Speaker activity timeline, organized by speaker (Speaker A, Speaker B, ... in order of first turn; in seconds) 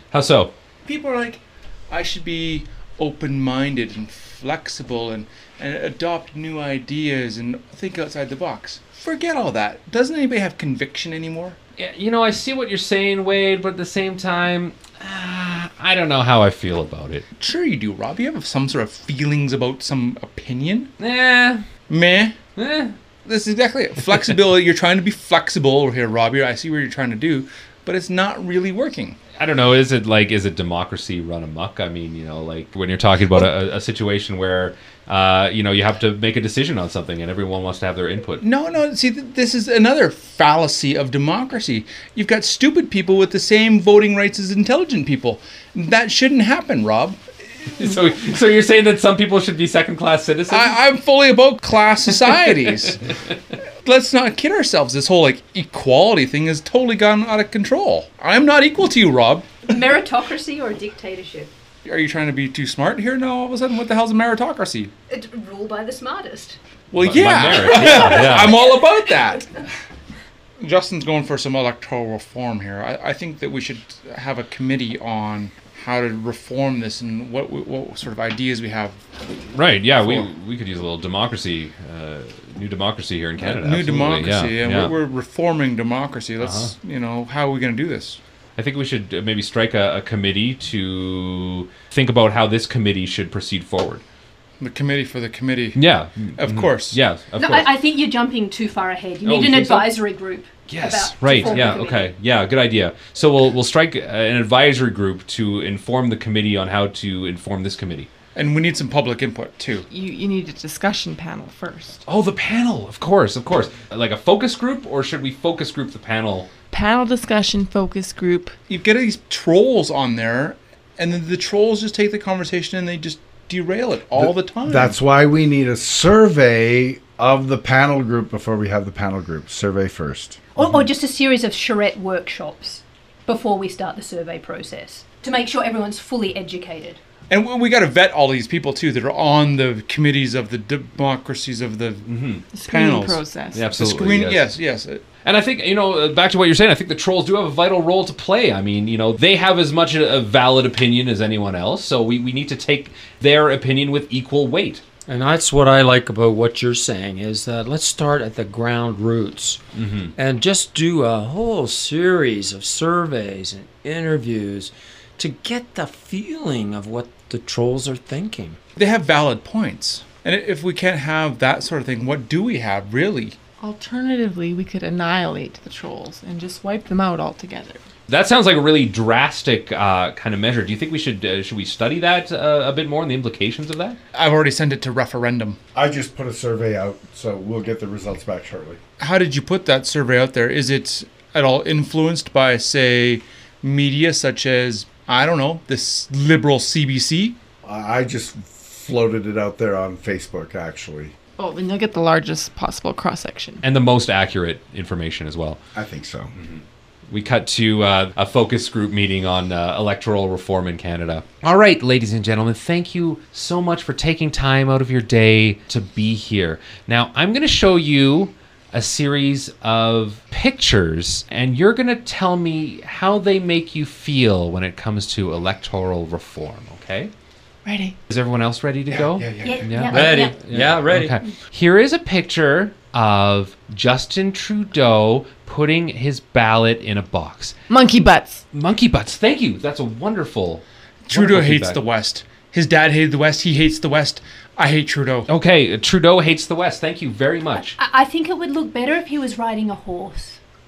Speaker A: 0.1-0.5, 11.8-17.2, 21.0-21.6, 22.6-22.9, 29.4-38.4, 47.6-50.8, 52.1-52.9, 67.0-68.6, 79.5-84.9, 86.4-86.7, 88.5-94.0, 95.7-97.7, 99.2-99.9, 100.7-108.1, 112.0-116.5, 142.0-142.5, 143.5-144.6, 145.2-154.8, 159.8-160.1, 178.1-184.0, 203.6-205.6, 206.3-227.1, 228.1-237.5, 238.5-241.8, 245.3-247.8
Speaker B: 0.8-11.6, 17.4-20.9, 21.9-22.4, 23.2-29.2, 38.4-47.2, 50.5-53.0, 53.8-59.5, 61.8-64.9, 66.9-69.4, 70.6-79.0, 83.4-88.2, 94.6-95.8, 96.4-97.0, 108.3-109.8, 118.7-124.9, 137.3-142.0, 142.7-143.2, 143.7-145.0, 168.8-173.3, 184.1-185.6, 189.0-197.3, 241.1-245.3
Speaker C: 59.7-61.5, 65.1-66.6, 67.8-68.6, 97.3-102.1, 130.5-137.0, 229.4-230.3, 247.8-250.4
Speaker D: 109.9-112.0, 116.7-118.5, 142.5-143.7, 173.6-177.8, 201.4-203.6, 227.6-227.9, 237.7-238.4
Speaker E: 124.2-130.5, 185.7-188.8, 197.6-201.1, 205.7-206.3, 228.9-229.8
Speaker F: 155.1-168.6, 229.8-231.2